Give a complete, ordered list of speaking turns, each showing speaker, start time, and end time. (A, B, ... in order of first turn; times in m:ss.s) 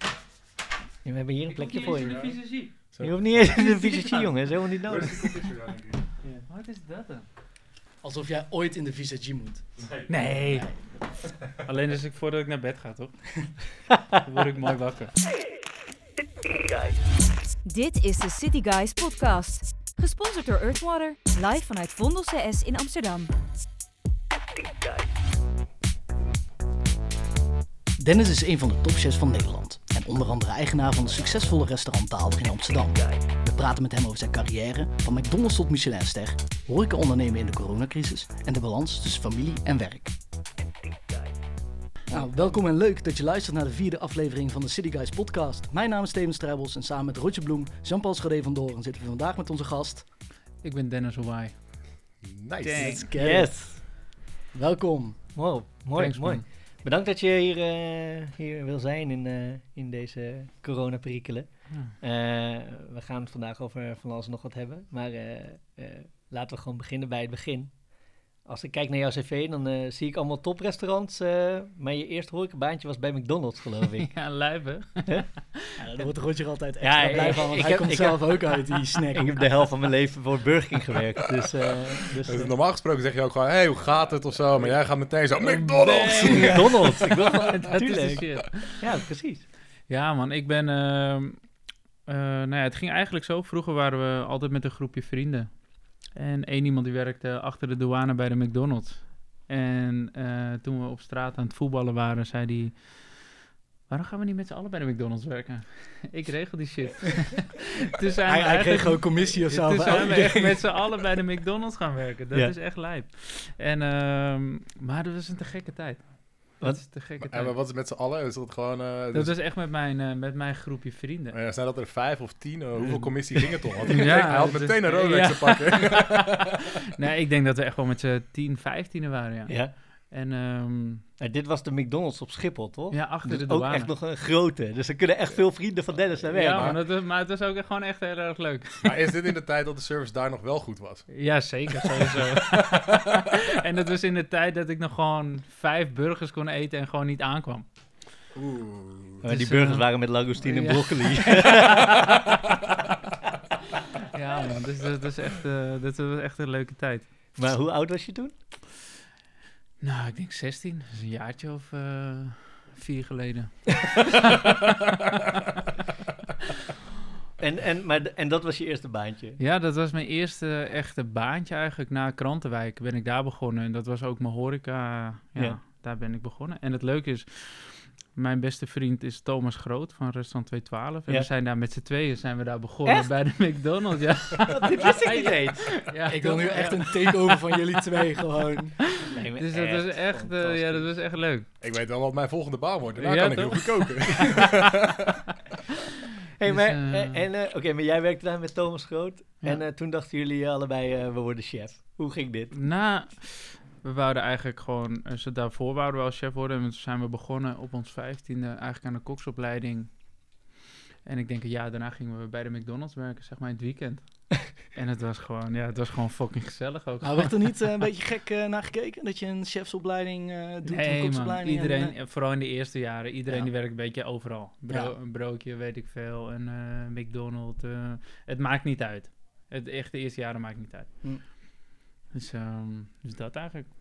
0:01.0-0:05.4 A
0:01.5-0:02.7 B
0:01.9-0:06.1 C
0:06.2-0:07.3 B
0:08.0-0:10.7 D
0:09.8-0:10.2 C
0:10.1-0:10.9 B
0:11.6-0:15.2 B
0:17.6-0:23.3 E
0:28.0-0:40.1 D
0:42.1-0:50.1 D
0:50.6-0:51.9 B
0:52.2-0:53.0 C
0:52.6-0:53.1 B
0:52.8-0:55.3 D
0:53.2-0:53.9 A
0:55.3-1:14.4 A
0:55.9-0:56.5 B
1:14.1-1:15.6 B
1:15.8-1:19.7 D
1:16.8-1:22.5 A
1:22.2-1:27.0 C
1:25.3-1:28.8 B
1:26.3-1:29.4 A
1:29.9-1:57.5 B
1:48.3-1:51.0 D
1:57.2-1:59.4 C
1:59.1-2:01.4 B
2:01.3-2:06.6 C
2:02.8-2:03.1 B
2:03.9-2:11.1 B
2:09.5-2:09.7 A
2:11.2-2:16.8 A
2:12.9-2:13.9 B
2:16.3-2:18.9 B
2:18.8-2:22.8 C
2:21.1-2:27.7 B
2:28.3-2:29.2 C
2:29.2-2:31.8 A
2:29.2-2:32.0 B
2:34.1-2:37.1 B
2:37.3-2:38.3 A
2:39.8-2:45.0 B
2:47.4-2:49.4 A
2:49.4-3:07.3 B
3:02.8-3:03.2 A
3:04.4-3:05.9 A
3:06.0-3:09.0 D
3:09.0-3:11.0 A
3:09.4-3:11.5 B
3:11.6-3:15.3 C
3:13.0-3:14.5 B
3:16.4-3:22.6 A
3:16.4-3:17.2 B
3:22.5-3:30.4 B
3:31.0-3:37.8 B
3:37.0-3:42.0 D
3:40.6-3:51.5 B
3:43.3-3:43.5 D
3:44.7-3:44.9 D
3:52.1-3:53.7 B